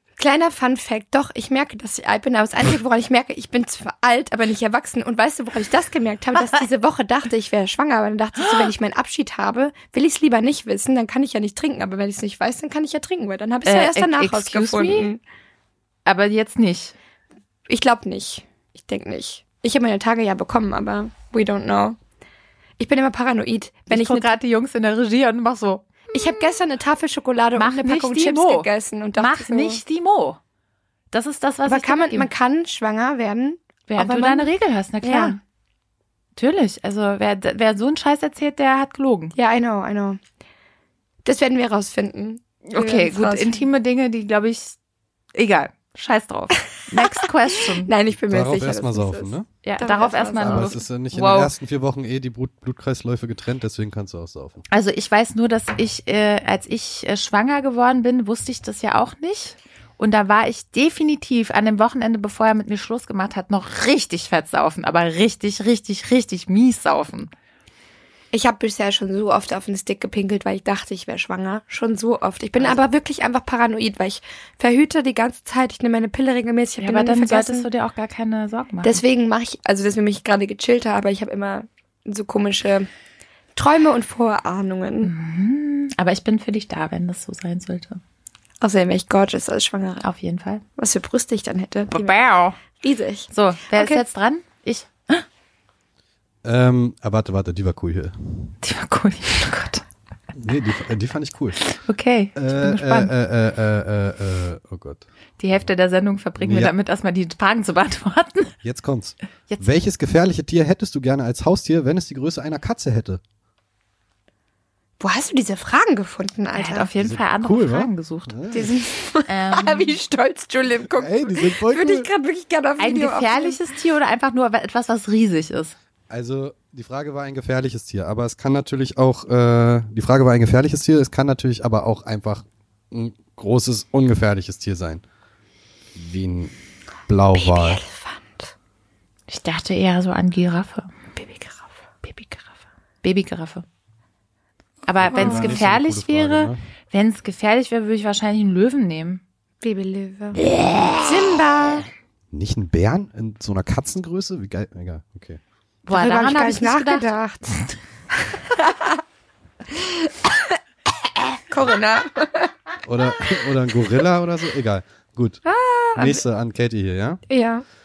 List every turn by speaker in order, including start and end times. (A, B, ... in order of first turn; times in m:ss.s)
0:00.2-0:15.2 A
0:13.6-0:15.1 B
0:16.1-0:17.0 B
0:17.7-0:22.0 A
0:22.8-0:24.3 A
0:23.9-0:26.4 B
0:26.1-0:29.8 A
0:27.6-0:30.4 B
0:31.1-0:32.3 B
0:31.7-0:34.5 A
0:33.9-0:35.4 B
0:35.0-0:35.4 A
0:36.4-0:39.3 B
0:39.4-0:40.2 A
0:41.2-0:43.7 A
0:42.7-0:44.8 B
0:45.4-0:47.9 B
0:47.0-0:47.3 A
0:47.8-0:50.8 A
0:48.3-0:49.5 C
0:49.6-0:51.5 B
0:50.4-0:54.6 C
0:54.7-1:07.3 B
1:08.3-1:17.7 A
1:16.8-1:19.0 B
1:18.8-1:22.9 A
1:23.6-1:25.1 A
1:25.0-1:28.0 B
1:28.6-1:30.0 A
1:30.0-1:30.6 B
1:30.8-1:32.1 A
1:31.9-1:32.6 B
1:32.8-1:34.0 A
1:33.3-1:35.2 B
1:36.4-1:38.6 C
1:38.6-1:39.8 B
1:40.3-1:41.6 C
1:41.6-1:43.1 B
1:42.4-1:45.0 C
1:45.4-1:48.6 B
1:46.4-1:46.7 C
1:48.6-1:53.2 C
1:55.0-1:56.9 A
1:56.5-1:58.4 B
1:57.0-1:58.7 C
1:58.5-2:03.6 A
1:59.3-2:00.0 B
2:00.9-2:02.1 C
2:02.8-2:05.8 B
2:06.1-2:15.0 C
2:16.0-2:16.5 C
2:17.1-2:17.8 C
2:17.3-2:18.5 A
2:19.3-2:20.9 B
2:21.2-2:21.7 A
2:22.0-2:22.5 B
2:23.0-2:23.6 B
2:24.9-2:29.2 B
2:25.0-2:26.6 C
2:25.1-2:25.6 A
2:29.6-2:30.4 A
2:30.4-2:31.1 B
2:31.0-2:31.9 A
2:32.3-2:35.4 C
2:35.9-2:37.1 B
2:35.9-2:37.6 A
2:38.2-2:39.0 A
2:39.7-2:40.5 A
2:41.4-2:42.5 A
2:42.8-2:45.4 C
2:45.4-2:46.2 A
2:46.0-2:47.2 C
2:47.3-2:47.6 A